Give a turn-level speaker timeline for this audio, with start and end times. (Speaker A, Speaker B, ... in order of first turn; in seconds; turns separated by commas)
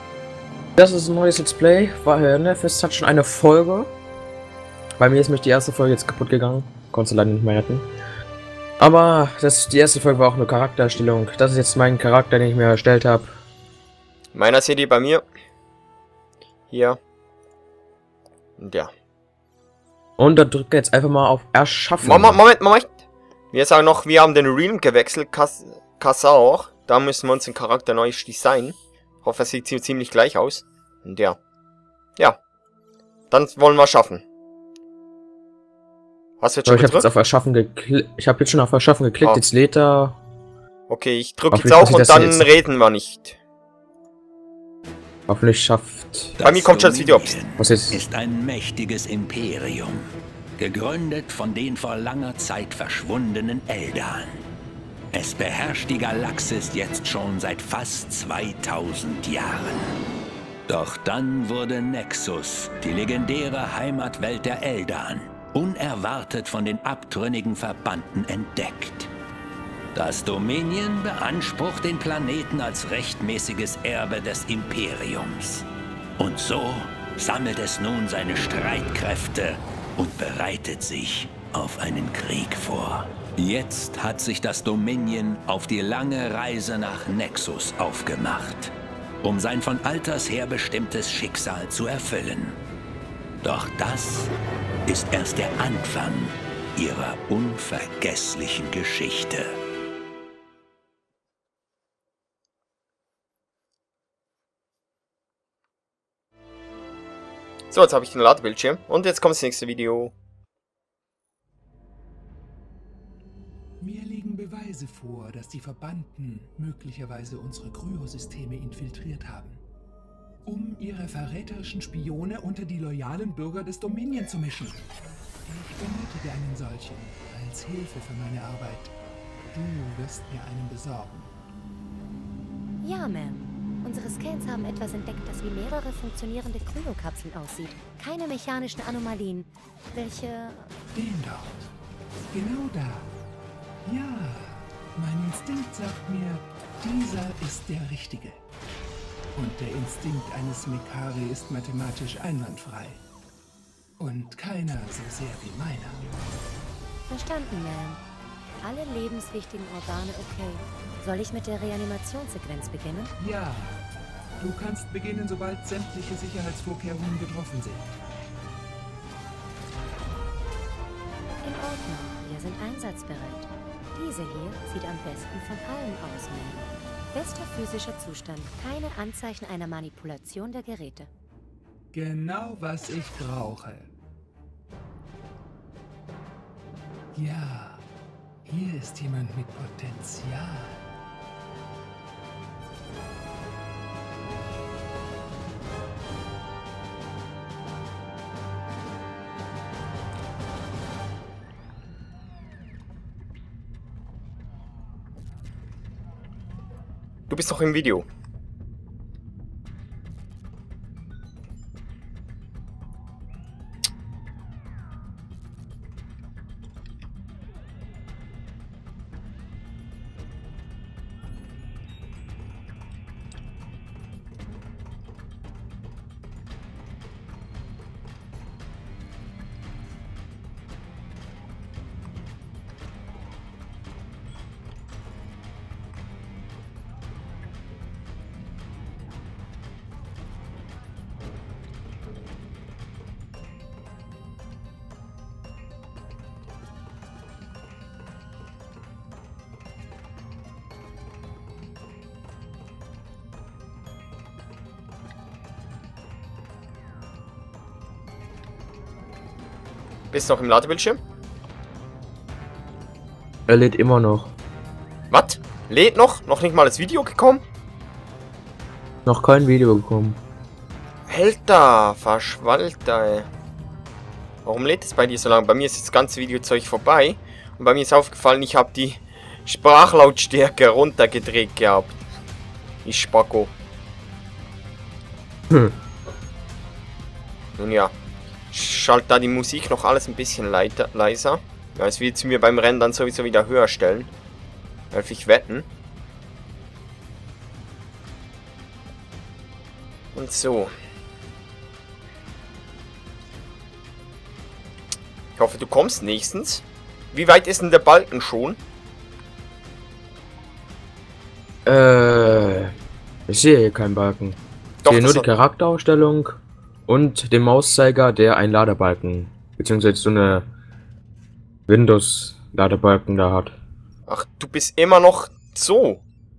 Speaker A: 0.8-3.9, Speaker A: 5.0-7.9, Speaker A: 8.8-13.3, Speaker B: 14.3-15.2, Speaker B: 16.7-17.0, Speaker B: 18.6-18.9, Speaker A: 20.2-22.4, Speaker B: 22.0-22.9, Speaker B: 23.5-31.4, Speaker B: 33.3-34.2, Speaker B: 36.4-37.1, Speaker A: 36.7-40.2, Speaker B: 40.9-43.4, Speaker A: 41.5-42.5, Speaker A: 45.3-46.3, Speaker C: 46.4-50.0, Speaker B: 46.4-47.4, Speaker A: 47.6-48.0, Speaker C: 50.6-54.4, Speaker C: 55.1-60.0, Speaker C: 60.7-69.1, Speaker C: 69.9-75.7, Speaker C: 76.2-92.6, Speaker C: 93.4-94.3, Speaker C: 94.9-99.5, Speaker B: 107.7-110.1, Speaker D: 113.8-119.6, Speaker D: 120.5-124.9, Speaker D: 125.5-128.9, Speaker D: 129.5-131.3, Speaker E: 132.8-140.7, Speaker D: 140.9-141.7, Speaker D: 142.3-143.1, Speaker D: 143.8-148.4, Speaker D: 149.3-153.0, Speaker D: 154.0-156.1, Speaker E: 157.1-158.0, Speaker E: 158.6-163.1, Speaker D: 163.2-163.8, Speaker D: 164.4-167.8, Speaker E: 171.4-181.1, Speaker D: 181.9-183.9, Speaker D: 187.2-187.8, Speaker D: 188.4-190.8, Speaker B: 207.3-208.1, Speaker B: 260.1-261.0, Speaker A: 263.5-264.3, Speaker B: 265.1-267.4, Speaker A: 269.1-270.2, Speaker B: 271.1-273.3, Speaker B: 274.4-282.0, Speaker B: 282.9-283.5, Speaker B: 287.6-287.9, Speaker B: 288.5-294.1, Speaker B: 294.9-295.7, Speaker B: 300.1-300.7, Speaker B: 305.4-308.6, Speaker A: 311.6-312.7, Speaker A: 313.3-320.4, Speaker B: 314.8-315.3, Speaker A: 321.7-323.5, Speaker B: 324.1-326.0